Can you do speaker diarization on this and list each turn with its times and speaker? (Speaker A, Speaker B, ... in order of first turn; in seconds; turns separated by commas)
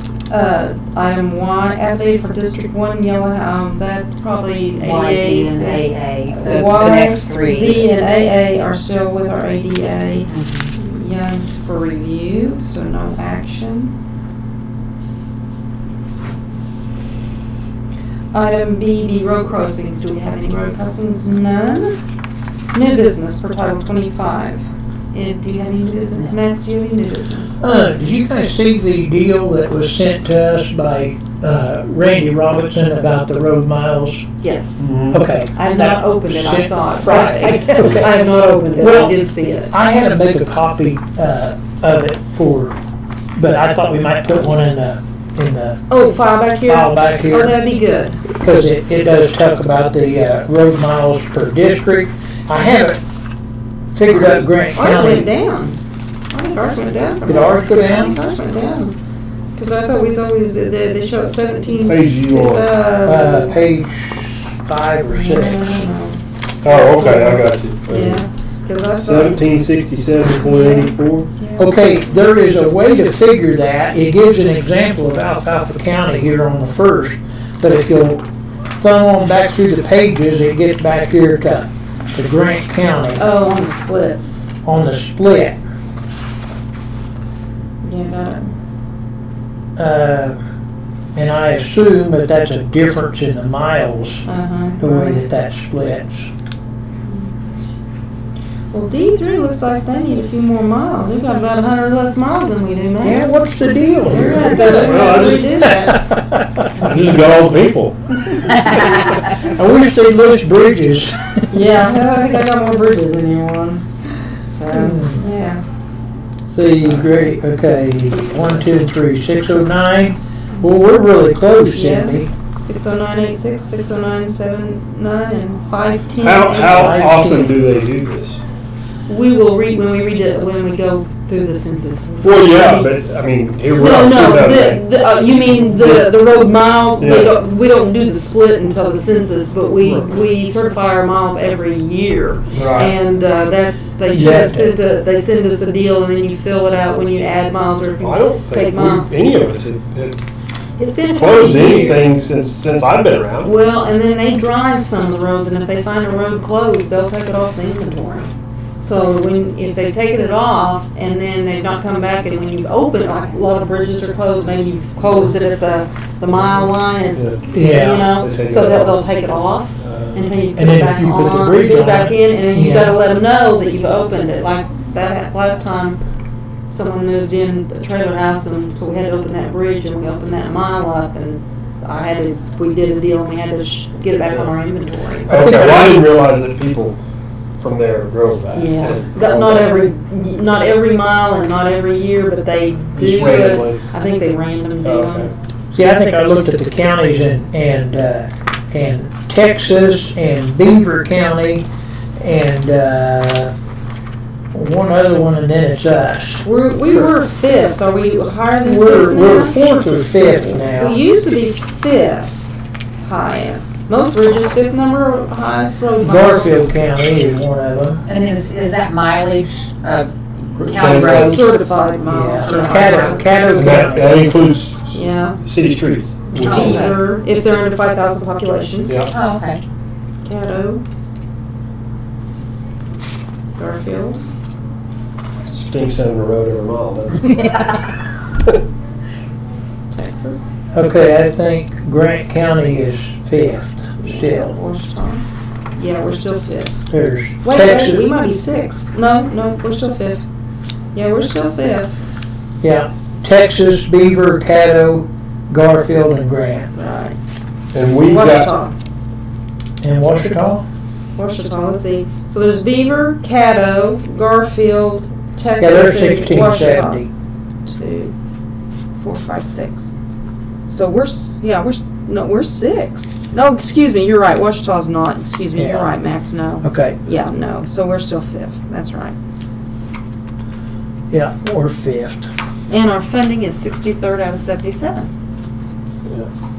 Speaker A: 0.3-13.9, Speaker B: 4.8-7.8, Speaker B: 10.3-10.7, Speaker A: 18.3-22.0, Speaker A: 22.7-27.6, Speaker C: 27.6-34.2, Speaker A: 34.4-34.9, Speaker D: 34.8-35.2, Speaker C: 35.1-38.1, Speaker A: 35.5-39.7, Speaker C: 38.8-42.8, Speaker C: 43.4-45.9, Speaker A: 45.9-48.2, Speaker C: 46.7-47.5, Speaker C: 48.3-53.0, Speaker C: 53.9-55.3, Speaker A: 54.7-55.8, Speaker A: 56.3-59.0, Speaker C: 57.2-58.1, Speaker A: 59.5-63.5, Speaker D: 61.8-62.7, Speaker C: 63.0-65.9, Speaker A: 65.1-66.2, Speaker D: 66.6-68.2, Speaker A: 66.8-69.4, Speaker D: 69.0-71.3, Speaker A: 70.4-71.8, Speaker C: 71.6-83.2, Speaker A: 83.2-84.5, Speaker C: 84.6-85.6, Speaker A: 87.8-88.5, Speaker C: 89.8-90.4, Speaker C: 91.1-94.2, Speaker A: 94.2-95.2, Speaker C: 94.8-96.3, Speaker A: 98.7-106.0, Speaker C: 103.0-105.0, Speaker B: 104.4-104.8, Speaker D: 104.8-105.7, Speaker C: 105.7-106.7, Speaker D: 106.8-108.0, Speaker C: 109.4-111.5, Speaker A: 111.5-113.8, Speaker A: 114.5-115.6, Speaker C: 114.7-115.2, Speaker C: 116.5-122.3, Speaker A: 116.8-117.3, Speaker A: 121.7-126.9, Speaker D: 126.2-128.4, Speaker C: 126.7-127.5, Speaker A: 129.1-132.9, Speaker D: 132.2-134.8, Speaker A: 133.7-149.1, Speaker D: 135.7-136.0, Speaker D: 137.0-137.3, Speaker D: 139.8-140.2, Speaker D: 142.5-142.9, Speaker C: 144.1-144.7, Speaker D: 148.0-150.2, Speaker A: 150.8-152.0, Speaker D: 151.1-153.5, Speaker A: 153.4-176.0, Speaker D: 166.3-167.4, Speaker C: 167.5-168.1, Speaker D: 168.1-169.0, Speaker D: 169.8-170.3, Speaker C: 170.5-172.9, Speaker A: 176.7-185.4, Speaker C: 185.3-186.0, Speaker D: 185.3-187.0, Speaker D: 187.6-189.8, Speaker A: 188.5-195.3, Speaker D: 192.9-193.8, Speaker D: 194.8-195.3, Speaker C: 195.7-203.5, Speaker C: 204.5-206.4, Speaker A: 206.4-209.6, Speaker C: 208.6-211.0, Speaker A: 210.7-216.6, Speaker C: 216.0-218.0, Speaker B: 218.1-221.4, Speaker D: 220.6-221.4, Speaker A: 220.9-223.2, Speaker C: 222.1-224.2, Speaker B: 222.3-223.7, Speaker D: 223.5-226.9, Speaker A: 224.9-225.4, Speaker A: 226.4-229.0, Speaker B: 226.4-226.9, Speaker B: 229.1-229.6, Speaker A: 230.2-230.8, Speaker A: 233.6-234.2, Speaker D: 235.4-237.9, Speaker A: 239.9-240.5, Speaker C: 240.7-244.6, Speaker A: 244.0-245.2, Speaker A: 245.8-246.8, Speaker C: 246.9-248.0, Speaker A: 247.4-250.3, Speaker A: 250.9-252.0, Speaker C: 252.6-256.7, Speaker A: 256.7-257.2, Speaker D: 257.7-258.5, Speaker A: 258.0-258.7, Speaker C: 259.8-260.6, Speaker A: 261.1-267.0, Speaker C: 265.6-267.1, Speaker A: 267.6-268.1, Speaker A: 269.0-269.9, Speaker A: 270.7-279.1, Speaker C: 275.6-275.9, Speaker C: 276.6-277.0, Speaker C: 281.1-282.3, Speaker A: 282.7-285.1